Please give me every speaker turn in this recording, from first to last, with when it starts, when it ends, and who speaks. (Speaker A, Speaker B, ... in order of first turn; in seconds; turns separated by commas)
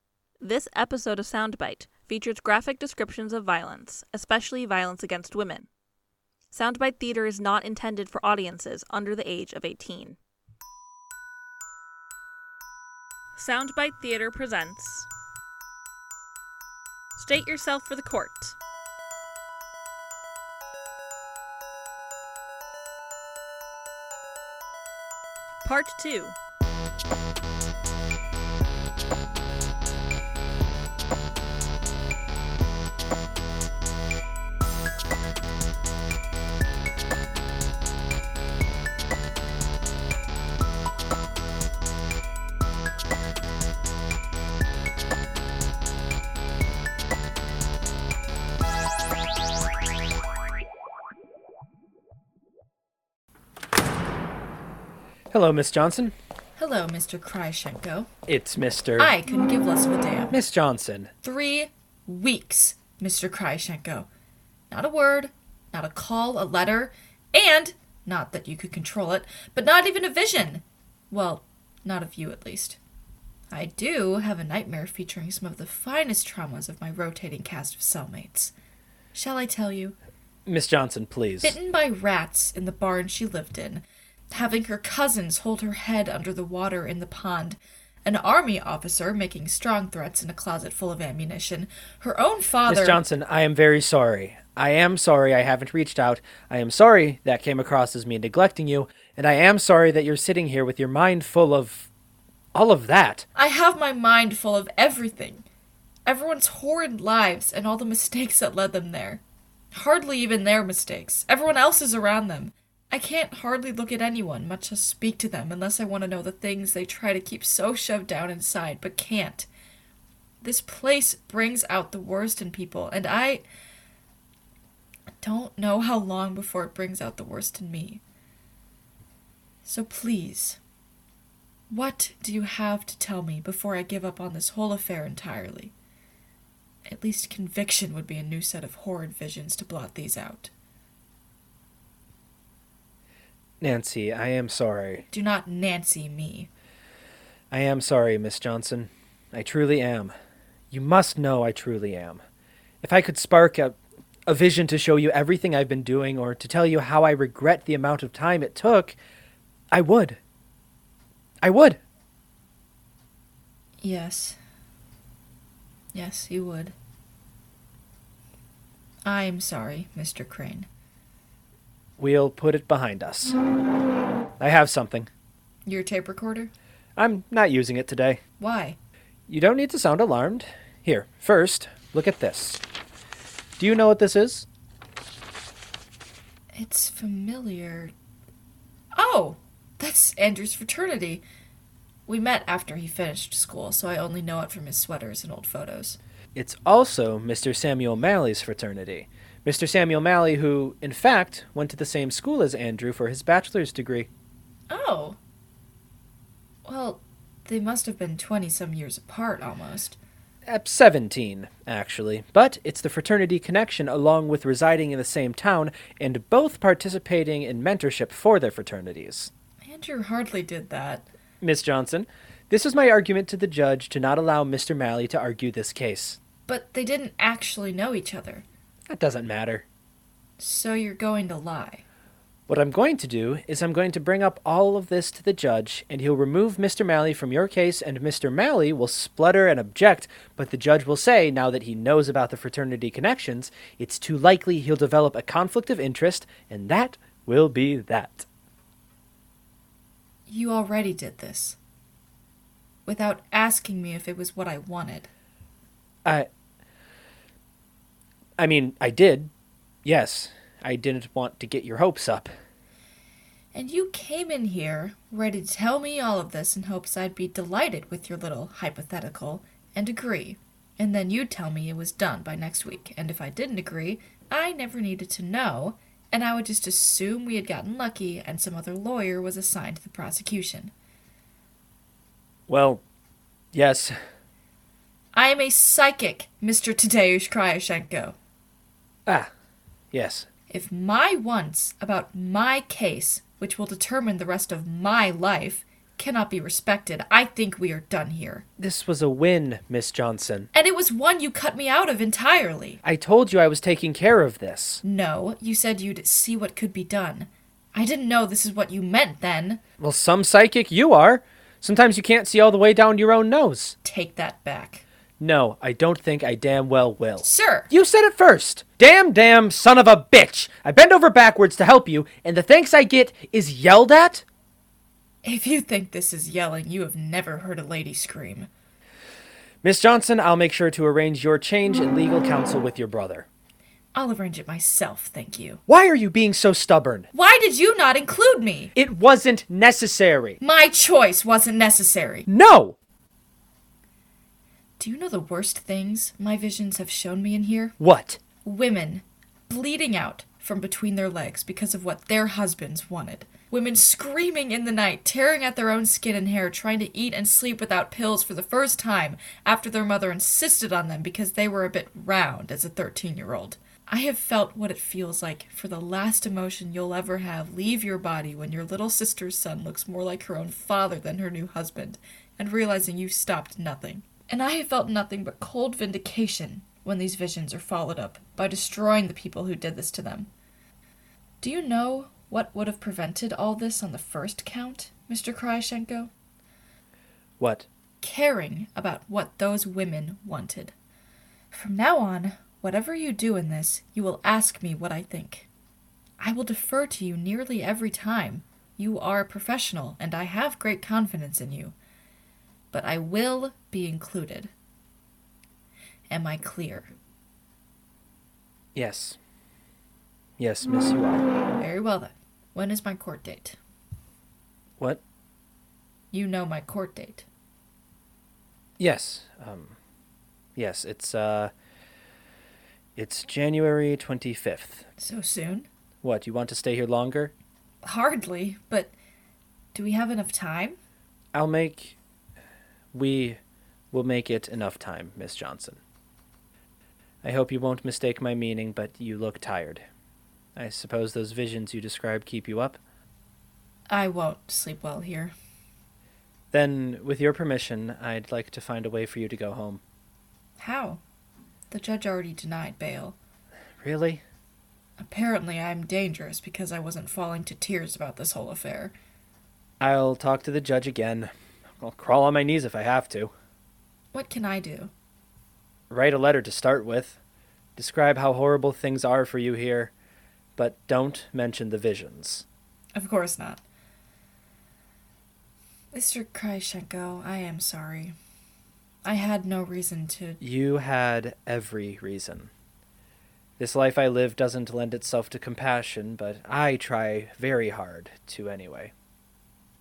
Speaker A: 0.4-5.7, Speaker A: 6.5-10.2, Speaker A: 13.4-15.1, Speaker A: 17.1-18.6, Speaker A: 25.6-26.4, Speaker B: 55.3-56.1, Speaker C: 56.6-58.1, Speaker B: 58.3-59.1, Speaker C: 59.0-60.4, Speaker B: 60.3-61.1, Speaker C: 61.2-64.1, Speaker C: 64.7-72.8, Speaker C: 73.5-78.5, Speaker C: 79.1-79.9, Speaker B: 80.5-81.6, Speaker C: 81.4-93.0, Speaker B: 92.7-101.9, Speaker B: 102.5-103.2, Speaker C: 103.3-105.4, Speaker C: 106.0-109.2, Speaker C: 109.7-119.5, Speaker C: 120.4-123.4, Speaker C: 125.2-128.0, Speaker C: 129.6-130.6, Speaker C: 131.7-135.7, Speaker C: 136.9-140.5, Speaker B: 143.6-145.0, Speaker C: 145.1-146.5, Speaker B: 147.5-150.1, Speaker B: 150.7-152.2, Speaker B: 152.8-158.9, Speaker B: 159.7-160.2, Speaker B: 161.4-161.8, Speaker C: 163.8-164.4, Speaker C: 165.9-166.7, Speaker C: 169.0-170.7, Speaker B: 172.0-173.4, Speaker B: 174.4-175.1, Speaker C: 175.7-176.5, Speaker B: 176.9-178.2, Speaker C: 178.4-178.8, Speaker B: 179.3-182.6, Speaker B: 183.6-184.5, Speaker C: 186.6-187.9, Speaker C: 188.9-191.2, Speaker C: 192.1-196.0, Speaker B: 196.3-204.1, Speaker C: 204.7-205.2, Speaker C: 206.6-210.0, Speaker B: 210.5-219.3, Speaker C: 219.6-221.1, Speaker B: 221.4-226.2, Speaker C: 226.5-228.4, Speaker B: 228.9-229.6, Speaker C: 230.4-231.8, Speaker B: 232.5-248.3, Speaker C: 250.3-251.6, Speaker C: 252.8-255.1, Speaker B: 258.4-259.3, Speaker B: 259.8-262.3, Speaker C: 263.5-280.7, Speaker B: 282.5-282.8, Speaker B: 283.5-283.9, Speaker C: 285.1-288.1, Speaker B: 289.1-289.3, Speaker B: 289.9-290.3, Speaker C: 290.5-298.4, Speaker B: 298.6-300.5, Speaker C: 300.5-302.8, Speaker B: 302.8-304.8, Speaker C: 304.8-309.6, Speaker B: 309.8-313.8, Speaker C: 313.8-314.8, Speaker B: 315.2-324.2, Speaker C: 317.2-317.7, Speaker C: 325.2-328.5, Speaker B: 329.6-333.3, Speaker C: 333.9-335.6, Speaker B: 335.7-337.1, Speaker C: 337.1-338.7, Speaker B: 338.8-340.4, Speaker C: 340.4-342.3, Speaker B: 342.3-342.8, Speaker C: 344.8-347.8, Speaker B: 347.8-348.2, Speaker C: 348.4-380.3, Speaker C: 381.4-386.1, Speaker B: 387.4-387.7, Speaker C: 388.0-390.7, Speaker C: 391.5-395.5, Speaker C: 396.2-401.8, Speaker C: 402.7-404.5, Speaker C: 406.1-406.9, Speaker B: 408.8-409.2, Speaker B: 410.4-411.3, Speaker C: 411.6-413.6, Speaker C: 416.1-417.2, Speaker B: 418.8-419.8, Speaker B: 420.6-421.5, Speaker B: 422.9-424.9, Speaker C: 425.0-425.7, Speaker B: 426.0-427.3, Speaker C: 427.8-428.9, Speaker C: 429.7-430.8, Speaker B: 431.3-432.0, Speaker B: 432.9-433.4, Speaker B: 433.9-435.8, Speaker B: 437.2-439.8, Speaker B: 440.6-442.8, Speaker C: 443.9-445.3, Speaker B: 446.5-449.8, Speaker C: 450.6-451.0, Speaker C: 451.7-453.1, Speaker B: 453.8-454.2, Speaker C: 455.0-458.9, Speaker B: 459.8-463.3, Speaker C: 464.1-464.9, Speaker B: 465.9-467.2, Speaker B: 467.8-469.9, Speaker B: 470.6-472.4, Speaker C: 472.9-473.6, Speaker C: 475.9-478.1, Speaker C: 479.1-480.4, Speaker B: 480.4-482.5, Speaker B: 483.6-488.9